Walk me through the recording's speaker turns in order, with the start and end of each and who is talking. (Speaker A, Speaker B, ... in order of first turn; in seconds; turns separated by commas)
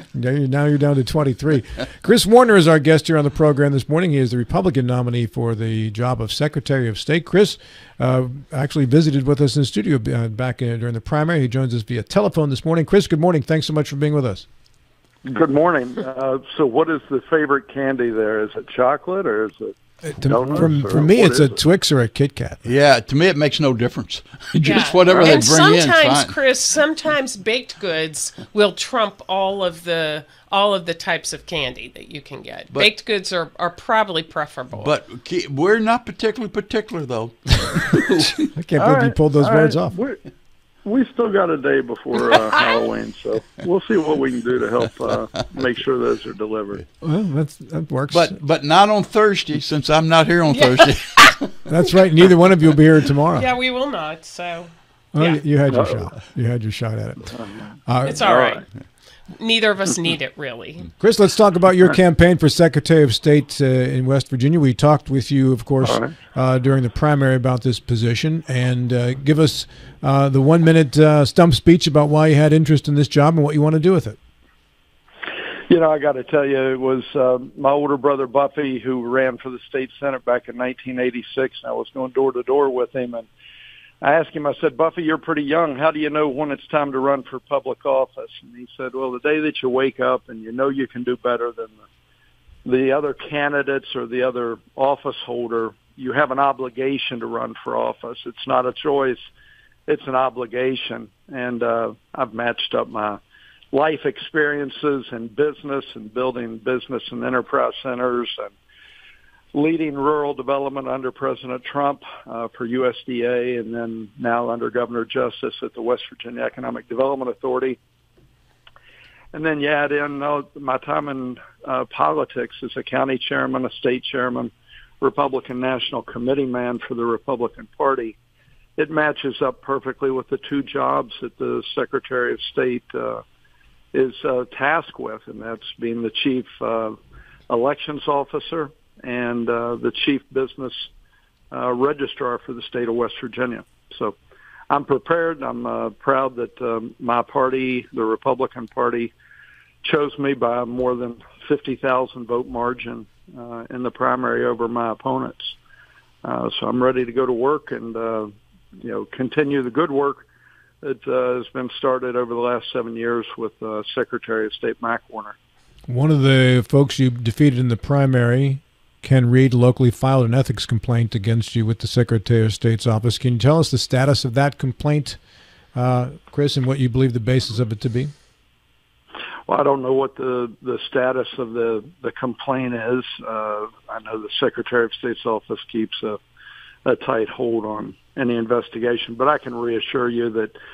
Speaker A: 0.1-14.4, Speaker B: 15.2-21.6, Speaker A: 20.0-22.6, Speaker C: 22.6-26.4, Speaker D: 24.6-34.9, Speaker C: 34.7-38.5, Speaker A: 38.5-40.0, Speaker B: 38.8-40.2, Speaker B: 40.8-46.8, Speaker A: 47.0-48.3, Speaker C: 48.1-51.5, Speaker D: 50.5-51.4, Speaker A: 51.7-53.5, Speaker D: 53.3-55.4, Speaker A: 55.1-57.3, Speaker B: 55.7-56.1, Speaker B: 57.3-58.6, Speaker A: 57.9-58.2, Speaker D: 58.0-60.9, Speaker A: 61.0-74.2, Speaker B: 65.8-66.1, Speaker B: 75.7-83.3, Speaker B: 84.0-91.8, Speaker B: 92.6-99.2, Speaker B: 99.9-103.2, Speaker B: 103.7-108.5, Speaker B: 109.5-117.8, Speaker B: 119.3-128.2, Speaker B: 128.8-133.2, Speaker B: 133.9-137.0, Speaker B: 137.5-140.9, Speaker B: 141.5-144.2, Speaker B: 144.7-149.1, Speaker B: 149.8-155.6, Speaker B: 156.2-160.2, Speaker B: 160.8-165.4, Speaker A: 165.9-175.2, Speaker A: 175.7-178.1, Speaker B: 179.5-186.2, Speaker B: 186.8-190.5